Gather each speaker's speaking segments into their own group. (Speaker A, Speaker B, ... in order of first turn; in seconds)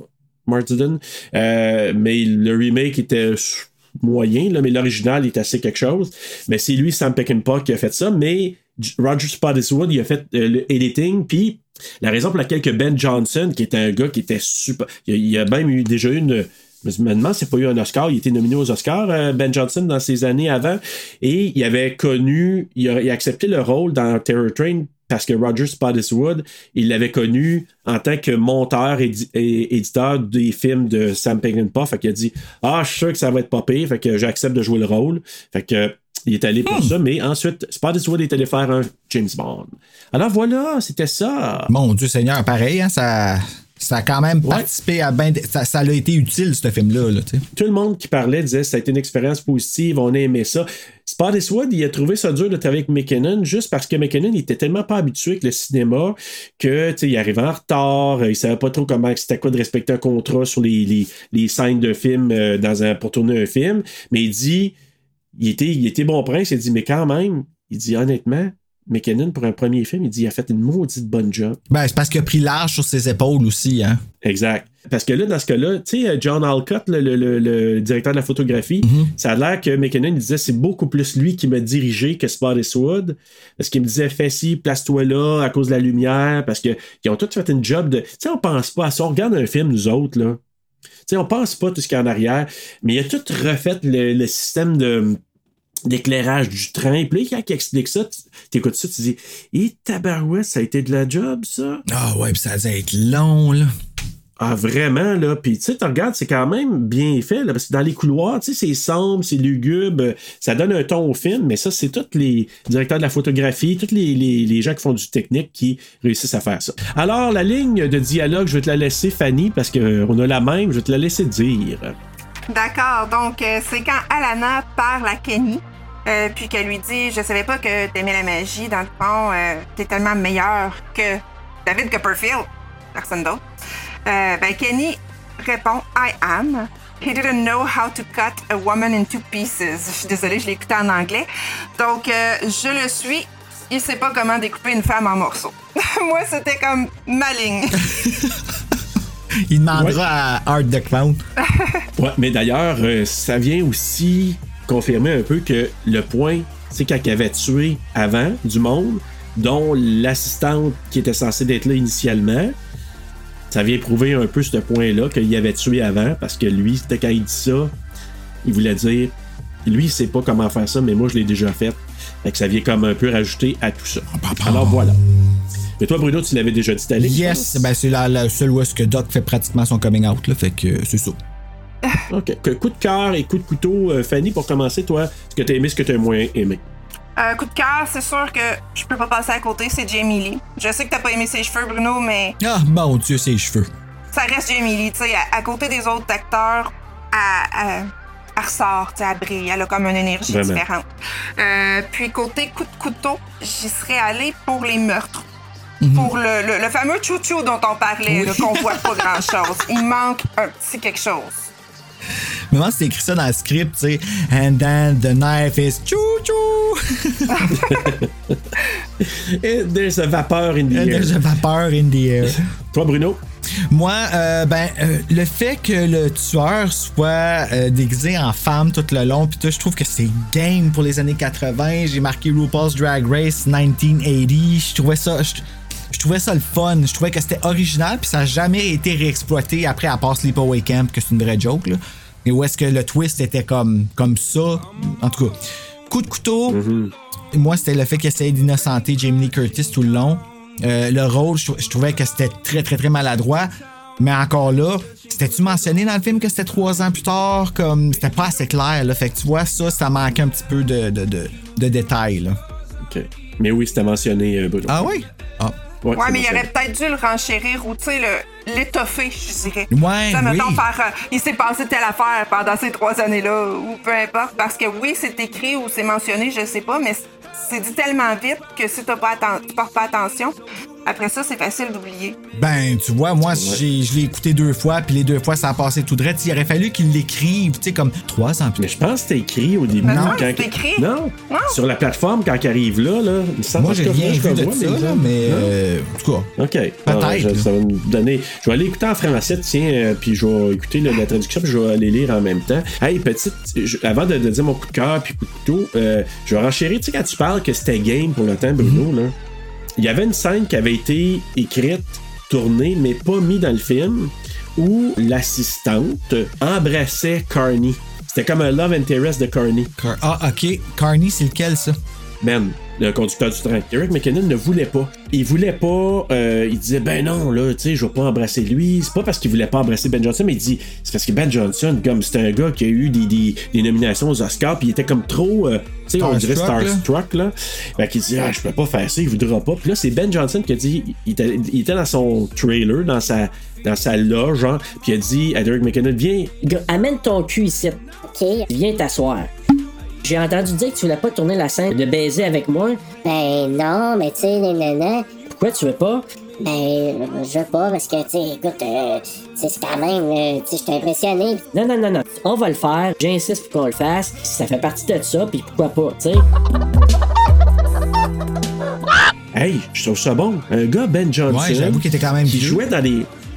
Speaker A: 0.5-41.7, 47.5-64.7, 65.4-71.6, 74.2-90.4, 91.1-95.2, 95.9-101.8, 104.4-122.0, 149.7-150.0, 152.0-162.6, 163.5-167.7, 168.4-169.1, 169.7-175.0, 175.8-177.7, 182.1-186.6, 200.3-200.6, 217.6-218.4, 219.0-221.2, 222.3-223.2, 246.5-246.9, 262.9-264.9, 265.8-266.5, 283.2-283.6, 288.6-295.5, 296.4-309.1, 309.8-319.7, 322.2-346.3, 369.3-373.1
Speaker B: 36.7-37.0, 41.7-47.5, 71.7-74.0, 78.8-79.1, 101.9-103.7, 147.9-148.5, 149.5-151.2, 174.1-175.3, 177.0-181.2, 192.4-193.7, 205.8-206.2, 208.1-209.2, 212.5-217.6, 220.7-222.5, 223.7-246.6, 247.3-262.4, 264.7-265.6, 269.7-270.6, 282.4-288.6, 289.9-290.3, 293.6-296.3, 296.9-297.5, 308.6-308.9, 319.8-321.8, 335.9-336.9, 371.3-372.6
Speaker C: 122.5-133.4, 134.1-147.9, 151.4-151.9, 187.2-192.4, 194.1-200.9, 201.4-205.3, 205.9-211.4, 217.3-217.9, 265.9-282.2, 289.8-291.6
Speaker D: 346.4-347.8, 348.5-349.3, 350.0-352.8, 355.3-356.1, 361.5-366.3
Speaker E: 348.1-348.5, 353.0-355.1, 356.4-361.4